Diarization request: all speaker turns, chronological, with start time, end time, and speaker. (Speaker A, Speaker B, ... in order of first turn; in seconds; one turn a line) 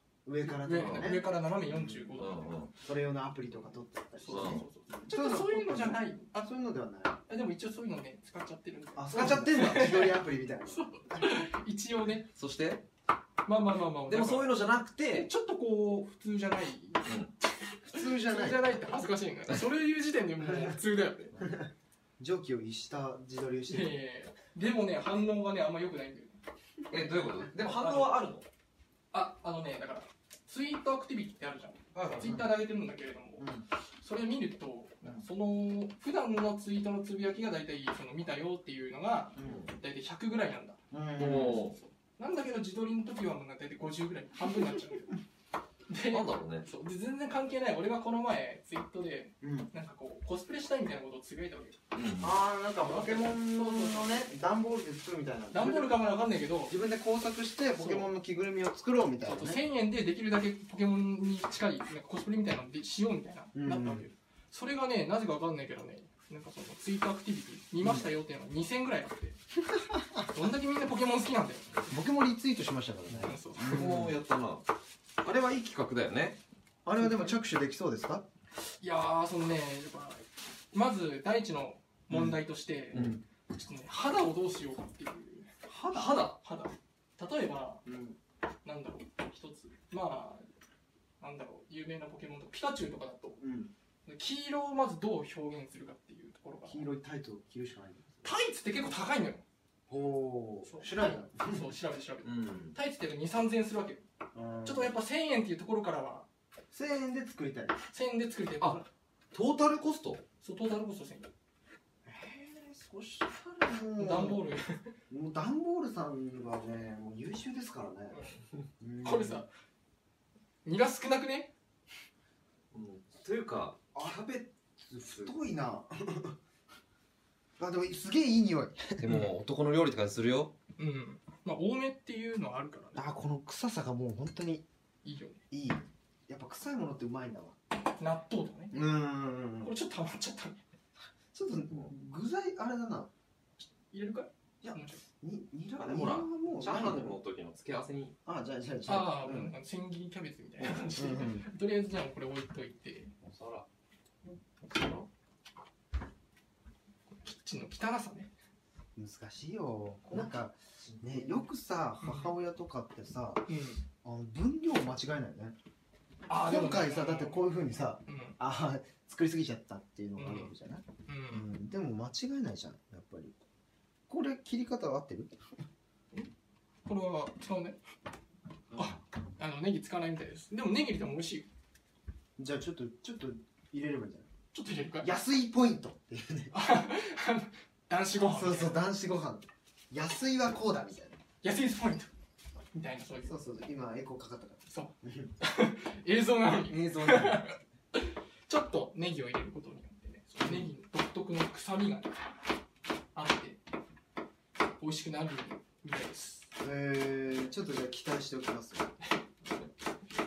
Speaker A: 0.2-2.1
Speaker B: 0.4-2.6
Speaker C: 0.8-1.1
Speaker C: 2.2-2.7
Speaker A: 2.7-7.2
Speaker B: 4.2-6.5
Speaker C: 4.3-4.6
Speaker B: 7.3-12.3
Speaker A: 8.9-11.3
Speaker C: 9.1-10.0
Speaker C: 12.3-12.8
Speaker B: 13.4-14.5
Speaker C: 14.1-15.3
Speaker B: 15.1-21.5
Speaker C: 17.1-17.3
Speaker A: 17.9-18.6
Speaker A: 20.5-20.8
Speaker A: 21.4-21.7
Speaker A: 22.2-23.9
Speaker B: 23.7-26.4
Speaker C: 26.9-28.5
Speaker B: 27.6-28.1
Speaker B: 29.1-45.2
Speaker C: 31.9-32.4
Speaker A: 32.2-32.5
Speaker A: 33.4-33.6
Speaker A: 39.4-39.7
Speaker C: 39.4-39.7
Speaker A: 40.9-41.7
Speaker C: 41.2-41.8
Speaker B: 45.9-51.8
Speaker C: 46.1-46.7
Speaker A: 49.4-49.7
Speaker C: 51.9-52.3
Speaker A: 52.2-56.0
Speaker B: 52.8-54.3
Speaker B: 55.5-56.7
Speaker A: 56.7-59.6
Speaker B: 57.8-58.1
Speaker B: 59.2-69.4
Speaker A: 63.5-64.0
Speaker A: 67.8-68.1
Speaker A: 69.7-70.2
Speaker B: 70.2-71.8
Speaker A: 71.9-74.1
Speaker B: 73.2-73.9
Speaker C: 73.6-74.6
Speaker C: 75.2-76.4
Speaker A: 76.8-78.2
Speaker B: 76.9-77.4
Speaker B: 78.8-85.5
Speaker A: 82.1-82.3
Speaker C: 82.9-83.2
Speaker A: 82.9-83.2
Speaker A: 85.7-86.2
Speaker C: 85.8-86.4
Speaker B: 86.3-87.8
Speaker A: 87.8-88.2
Speaker B: 88.6-90.5
Speaker B: 91.2-93.4
Speaker A: 93.4-93.7
Speaker B: 94.0-96.9
Speaker A: 96.6-98.2
Speaker B: 98.2-99.4
Speaker A: 99.9-101.7
Speaker B: 100.7-104.0
Speaker C: 102.2-102.7
Speaker A: 104.3-104.9
Speaker B: 104.6-106.3
Speaker A: 106.7-107.8
Speaker B: 107.9-108.8
Speaker C: 108.6-110.2
Speaker B: 110.4-111.3
Speaker A: 112.1-112.4
Speaker C: 112.2-113.4
Speaker A: 113.4-114.4
Speaker B: 114.0-114.9
Speaker A: 115.1-118.2
Speaker B: 118.1-118.4
Speaker A: 118.8-119.4
Speaker B: 119.0-119.5
Speaker B: 120.6-121.5
Speaker C: 122.7-123.9
Speaker A: 123.9-126.4
Speaker A: 127.6-129.1
Speaker C: 129.0-130.5
Speaker B: 130.8-133.1
Speaker A: 132.9-134.6
Speaker B: 135.0-135.4
Speaker A: 135.5-137.6
Speaker B: 137.9-138.8
Speaker A: 138.7-139.7
Speaker B: 139.6-140.6
Speaker A: 141.3-143.1
Speaker B: 143.9-145.0
Speaker A: 144.6-147.2
Speaker C: 145.8-148.1
Speaker A: 148.2-149.5
Speaker B: 148.8-153.1
Speaker C: 150.6-150.9
Speaker A: 151.0-151.5
Speaker C: 153.2-153.7
Speaker C: 154.7-155.1
Speaker B: 157.2-158.3
Speaker A: 158.9-163.5
Speaker C: 160.8-161.1
Speaker B: 162.0-162.3
Speaker B: 163.5-163.8
Speaker A: 164.0-165.6
Speaker B: 166.3-167.5
Speaker A: 166.3-173.4
Speaker B: 168.1-168.4
Speaker B: 170.2-170.5
Speaker B: 171.1-171.5
Speaker A: 174.1-175.3
Speaker B: 176.8-177.8
Speaker A: 178.7-179.0
Speaker B: 178.8-181.5
Speaker A: 182.4-184.3
Speaker B: 184.5-185.1
Speaker A: 185.0-186.5
Speaker B: 186.5-188.8
Speaker A: 188.2-191.2
Speaker B: 191.4-192.1
Speaker B: 192.7-193.4
Speaker A: 193.2-195.3
Speaker B: 194.7-202.3
Speaker A: 196.6-197.4
Speaker A: 200.4-200.7
Speaker B: 203.1-203.6
Speaker B: 204.8-206.5
Speaker A: 206.6-208.9
Speaker B: 209.0-209.9